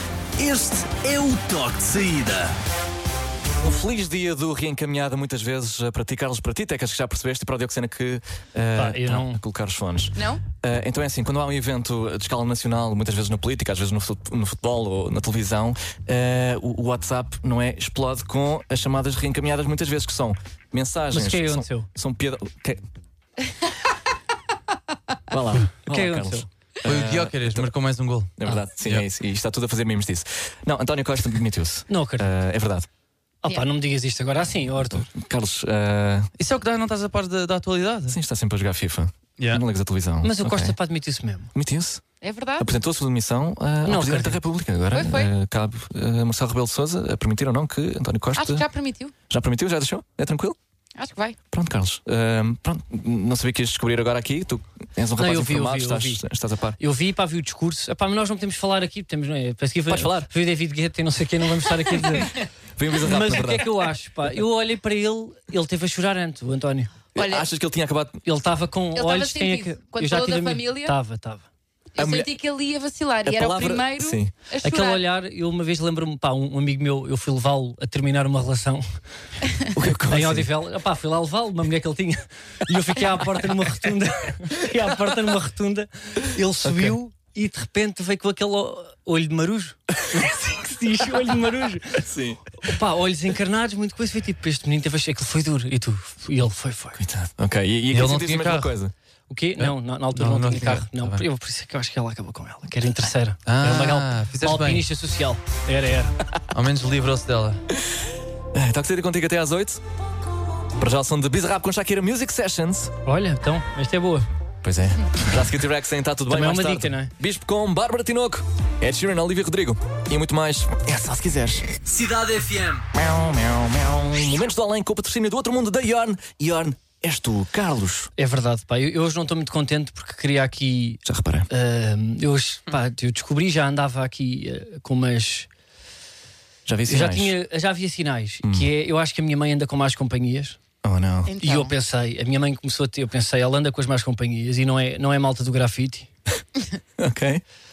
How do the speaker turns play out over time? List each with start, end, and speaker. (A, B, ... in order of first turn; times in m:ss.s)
0:00.4-0:02.5 A
0:03.6-0:22.8 B
0:08.7-0:09.4 C
0:10.2-0:10.4 D
0:21.1-0:21.9 C
0:25.3-0:27.7 B
0:25.9-0:26.5 C
0:26.8-0:29.0 E
0:28.4-0:32.8 B
0:31.9-0:32.3 C
0:33.4-0:35.1 C
0:34.8-0:36.3 B
0:36.4-0:38.2 E
0:38.1-0:40.8 B
0:40.2-0:41.5 C
0:41.5-0:42.0 B
0:42.2-0:42.7 D
0:42.6-0:48.7 B
0:43.8-0:44.4 C
0:44.9-0:45.3 D
0:48.4-0:49.1 D
0:49.3-0:50.6 B
0:51.0-0:51.4 D
0:51.5-0:56.8 B
0:55.2-0:56.2 C
0:56.8-1:02.4 C
0:59.9-1:00.3 B
1:02.8-1:03.7 B
1:03.0-1:06.9 C
1:07.1-1:08.2 B
1:07.2-1:07.5 D
1:08.2-1:11.4 C
1:08.9-1:10.9 D
1:11.9-1:15.0 D
1:12.0-1:12.3 B
1:13.2-1:14.3 B
1:14.6-1:18.8 C
1:19.7-1:20.5 B
1:20.1-1:32.0 C
1:26.6-1:27.0 B
1:32.0-1:32.4 B
1:32.6-1:37.0 C
1:37.0-1:38.9 B
1:37.9-1:38.7 E
1:39.3-1:46.2 C
1:39.6-1:41.2 E
1:43.5-1:44.8 E
1:46.5-1:47.6 E
1:48.5-1:49.8 B
1:50.8-1:52.9 B
1:53.0-1:54.3 C
1:54.6-2:01.7 B
1:56.3-1:57.1 C
2:01.8-2:02.8 E
2:02.9-2:08.1 B
2:08.2-2:15.5 C
2:11.0-2:11.5 B
2:16.6-2:17.4 B
2:16.9-2:20.6 C
2:18.4-2:18.7 B
2:20.8-2:21.3 B
2:21.2-2:21.7 D
2:21.4-2:26.1 C
2:27.0-2:27.4 B